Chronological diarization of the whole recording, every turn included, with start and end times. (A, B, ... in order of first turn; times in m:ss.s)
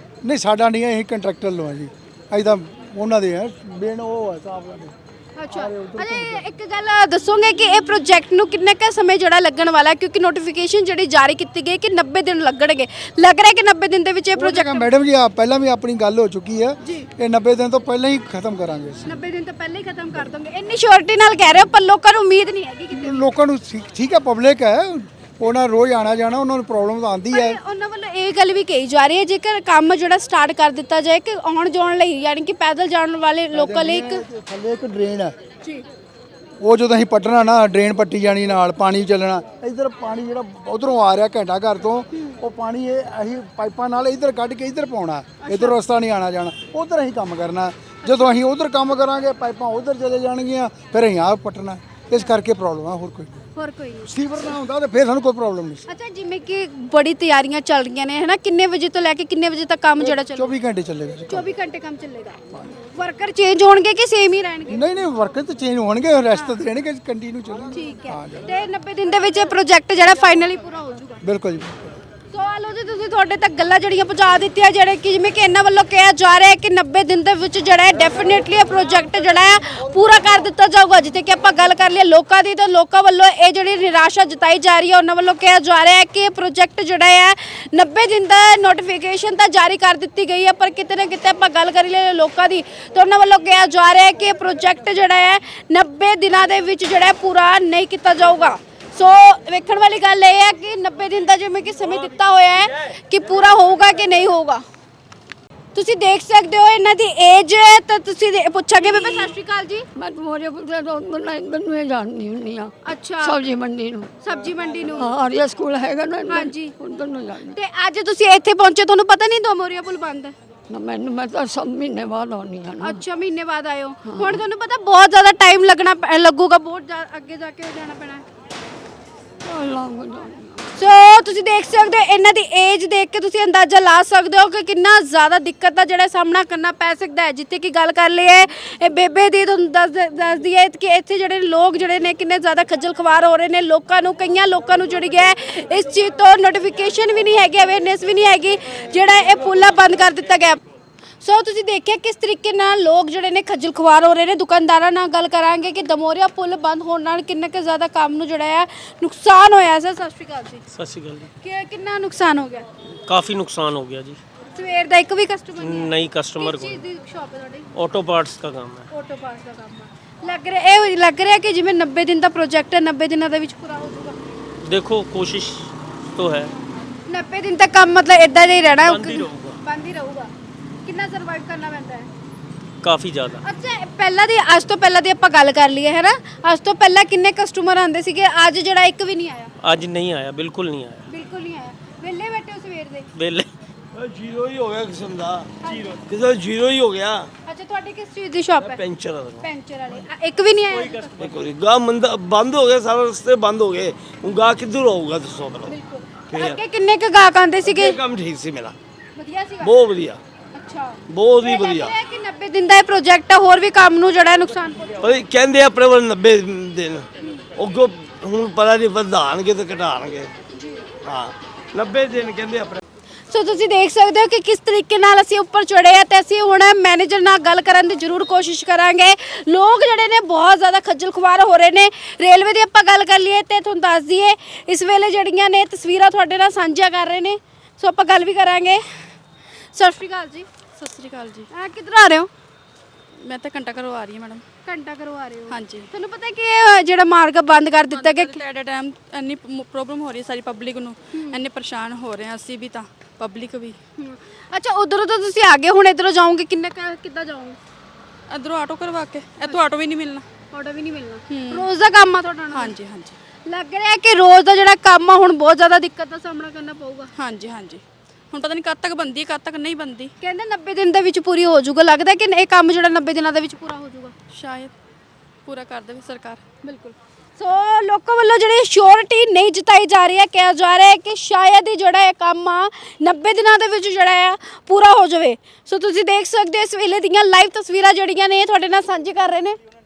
0:00.2-0:04.9 A
0:05.4-0:14.9 B
0:05.5-0:06.5 A
0:14.4-0:19.1 A
0:16.8-0:17.1 B
0:19.1-0:23.2 B
0:22.9-0:27.6 A
0:27.3-0:34.2 B
0:33.5-0:35.4 A
0:36.6-0:53.5 A
0:42.1-0:42.4 B
0:45.4-0:45.8 B
0:48.0-0:48.3 B
0:53.6-0:54.1 B
0:54.0-0:55.8 A
0:55.9-1:00.5 B
1:00.0-1:01.5 A
1:01.3-1:04.8 B
1:02.5-1:02.8 A
1:04.7-1:08.6 A
1:06.3-1:06.6 B
1:07.7-1:11.2 B
1:11.2-1:11.8 A
1:12.3-1:44.6 B
1:45.7-1:49.9 B
1:48.8-1:49.3 C
1:50.0-1:54.1 C
1:52.8-1:53.4 B
1:54.2-1:55.1 B
1:54.8-1:57.6 C
1:56.3-1:56.8 B
1:57.4-2:00.4 B
2:00.7-2:03.0 C
2:02.8-2:08.2 B
2:04.0-2:04.4 C
2:09.4-2:10.7 C
2:10.8-2:30.6 B
2:31.2-2:40.6 B
2:40.7-2:41.3 D
2:41.4-2:42.7 B
2:43.1-2:44.2 D
2:44.5-2:47.7 B
2:45.6-2:46.8 D
2:47.7-2:48.9 D
2:48.9-2:54.2 B
2:54.6-2:56.5 D
2:57.1-3:00.3 B
2:58.9-2:59.6 E
3:00.8-3:02.1 B
3:02.8-3:03.4 D
3:03.4-3:09.5 B
3:09.6-3:11.0 D
3:11.1-3:13.1 B
3:13.2-3:13.5 D
3:13.9-3:17.3 E
3:15.6-3:15.9 B
3:17.5-3:18.8 B
3:18.6-3:19.5 E
3:19.4-3:21.3 B
3:21.2-3:25.8 E
3:25.6-3:28.0 B
3:26.3-3:26.6 E
3:27.6-3:28.8 E
3:29.2-3:29.9 B
3:29.6-3:30.2 E
3:30.6-3:35.2 B
3:31.1-3:32.0 E
3:35.0-3:40.3 E
3:40.5-3:40.9 B
3:41.0-3:42.8 E
3:43.3-3:58.8 B
3:59.7-4:00.5 B
4:00.8-4:01.5 F
4:01.5-4:02.3 B
4:03.2-4:04.4 F
4:04.6-4:08.4 B
4:05.5-4:05.9 F
4:07.9-4:13.8 F
4:11.1-4:11.4 B
4:14.0-4:17.6 B
4:18.3-4:20.3 F
4:20.5-4:22.8 B
4:21.3-4:21.7 F
4:22.5-4:23.2 F
4:23.5-4:27.1 B
4:27.2-4:30.1 F
4:30.2-4:34.1 B
4:34.3-4:34.7 F
4:35.5-4:36.4 F
4:36.6-4:49.6 B